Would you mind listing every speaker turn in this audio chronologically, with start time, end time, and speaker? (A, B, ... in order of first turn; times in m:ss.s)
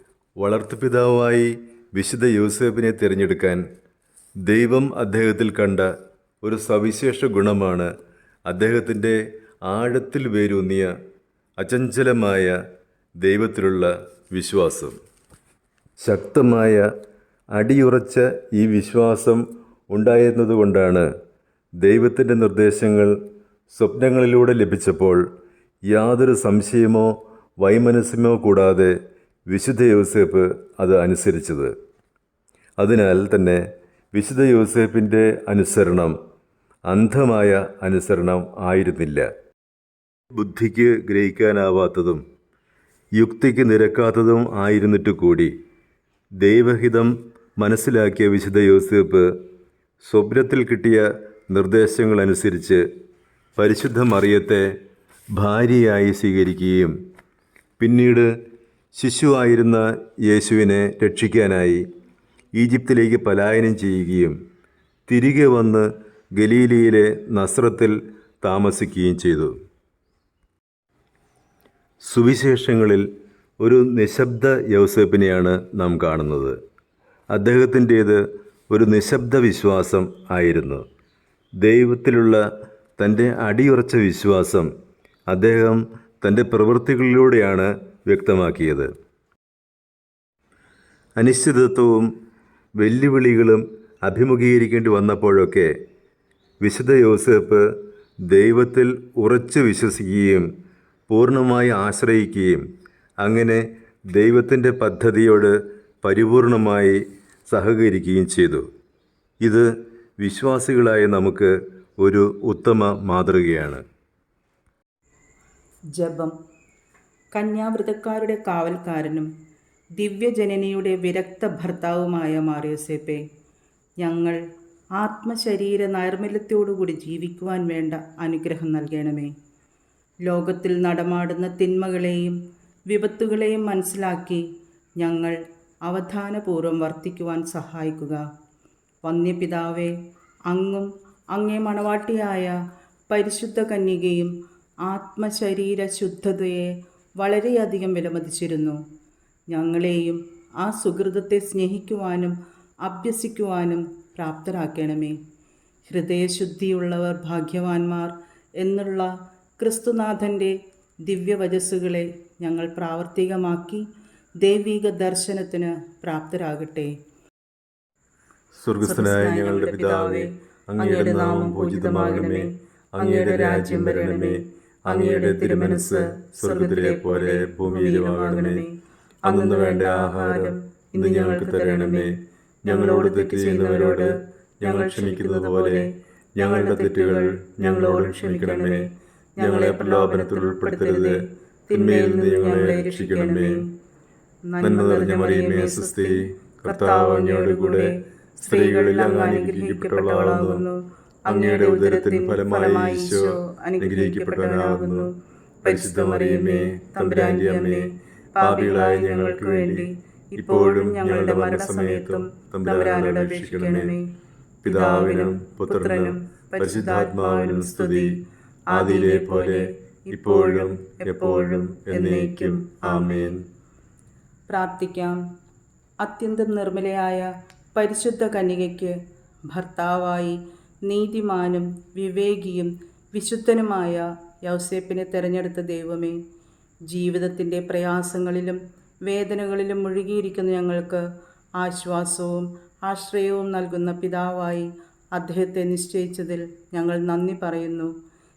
0:00.4-0:03.6 A
0:04.5-0:05.9 A
0:06.4-0:07.9 A
0:08.5-0:10.9 A
0:11.6-0:12.6 A
0:13.2-0:15.0 A
0:16.0-0:16.9 A
0:17.6-0:21.1 A
0:21.8-0:23.1 A
0:23.7-0:25.2 A
0:25.9-0:27.1 A
0:27.6-0:28.9 A
0:29.5-0:31.7 A
0:32.8-0:33.6 A
0:34.1-0:36.1 A
0:36.9-0:39.3 A
0:40.4-0:42.2 A
0:43.2-0:45.5 A
0:46.4-0:49.3 A
0:50.0-0:52.8 A
0:53.6-0:54.7 A
0:55.4-0:56.9 A
0:57.8-0:58.3 A
0:59.0-1:01.8 A
1:02.6-1:04.4 A
1:05.1-1:09.5 A
1:12.1-1:13.0 A
1:13.6-1:16.6 A
1:17.3-1:20.8 A
1:21.6-1:22.4 A
1:23.0-1:24.7 A
1:25.3-1:28.9 A
1:31.2-1:32.1 A
1:32.8-1:35.7 A
1:36.6-1:37.7 A
1:38.3-1:40.5 A
1:41.1-1:42.6 A
1:43.2-1:47.0 A
1:47.5-1:48.6 A
1:50.2-1:53.8 A
1:56.0-1:56.3 B
1:57.3-1:59.3 B
2:00.0-2:03.2 B
2:04.0-2:04.4 B
2:05.0-2:09.3 B
2:10.3-2:12.4 B
2:12.9-2:14.4 B
2:15.0-2:18.2 B
2:19.0-2:19.9 B
2:20.5-2:22.5 B
2:23.1-2:24.3 B
2:24.8-2:28.8 B
2:29.5-2:35.2 B
2:35.9-2:40.5 B
2:41.1-2:43.8 B
2:44.4-2:46.9 B
2:48.5-2:58.6 A
2:48.8-3:02.1 B
2:59.2-3:08.9 A
3:02.7-3:13.7 B
3:09.4-3:13.6 A
3:14.5-3:25.1 B
3:14.6-3:20.6 A
3:21.3-3:25.1 A
3:25.6-3:34.1 B
3:25.6-3:29.9 A
3:30.4-3:33.9 A
3:34.6-3:38.2 A
3:34.7-3:38.2 B
3:38.7-3:43.4 A
3:38.7-3:43.3 B
3:44.5-3:45.2 B
3:46.0-3:49.0 B
3:49.5-3:56.2 B
3:56.9-4:01.0 B
4:01.6-4:07.9 B